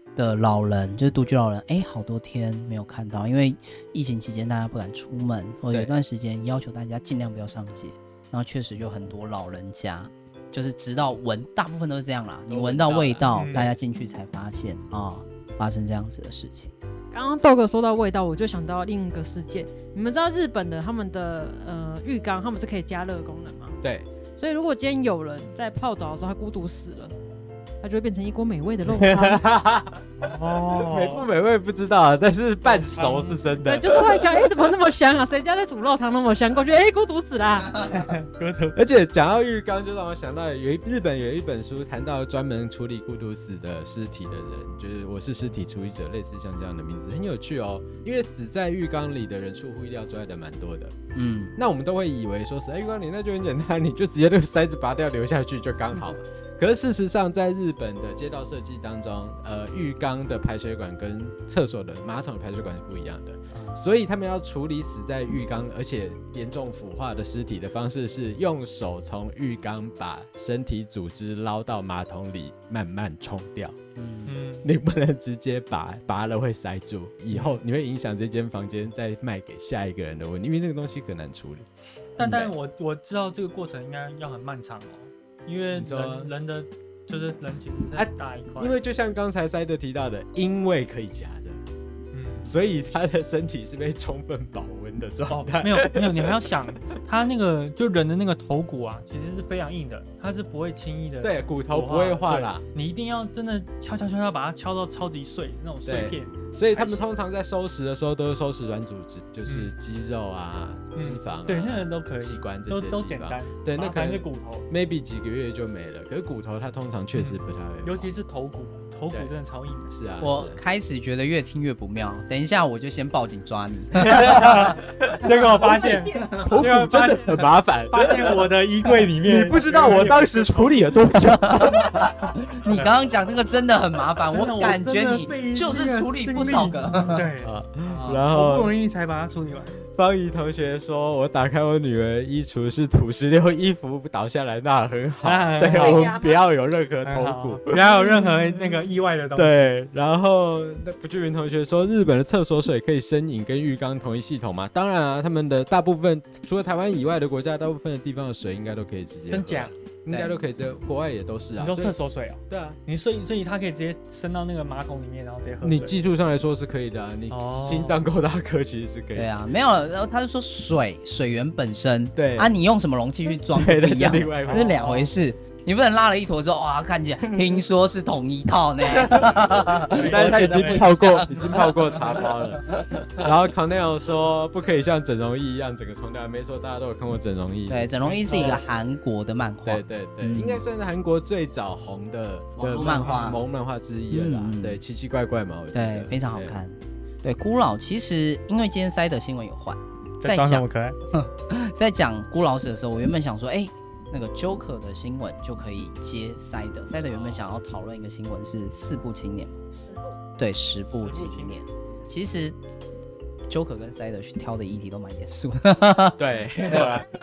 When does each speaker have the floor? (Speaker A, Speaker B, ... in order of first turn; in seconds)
Speaker A: 0.1-16.7, 51.1-51.5, 63.5-63.8, 73.9-74.3, 82.2-82.5, 120.2-124.8, 131.2-137.3, 137.8-138.2, 169.1-181.6, 187.7-190.6, 192.6-193.4, 194.1-194.8, 195.7-209.6, 210.4-212.6, 213.5-216.9
Speaker B: 12.5-13.7, 23.8-24.1, 28.9-30.0, 30.8-34.5, 38.8-50.9, 51.6-73.8, 74.6-81.7, 82.2-82.5, 85.7-86.3, 87.9-91.6, 92.5-96.5, 101.2-102.7, 105.8-118.1, 119.9-120.6, 123.9-128.5, 129.2-132.1, 137.4-138.7, 139.8-148.6, 149.4-161.9, 162.5-162.8, 165.6-169.3, 172.1-172.5, 173.5-174.8, 178.9-188.6, 189.7-196.6, 216.2-217.1
Speaker C: 13.3-13.7, 30.2-31.3, 32.6-33.4, 37.8-38.8, 74.3-74.7, 82.2-88.8, 92.1-92.5, 95.3-107.0, 111.0-114.7, 117.1-119.9, 124.2-130.9, 134.3-137.6, 138.3-139.8, 145.2-146.2, 147.1-149.7, 159.3-159.7, 161.6-165.9, 167.3-168.0, 174.4-175.1, 179.8-180.9, 188.1-188.6, 193.0-193.3, 200.2-201.0, 210.9-211.6, 216.7-217.1
Speaker D: 17.1-23.8, 24.4-27.1, 27.8-29.4, 33.6-37.9, 125.8-126.2, 145.6-146.4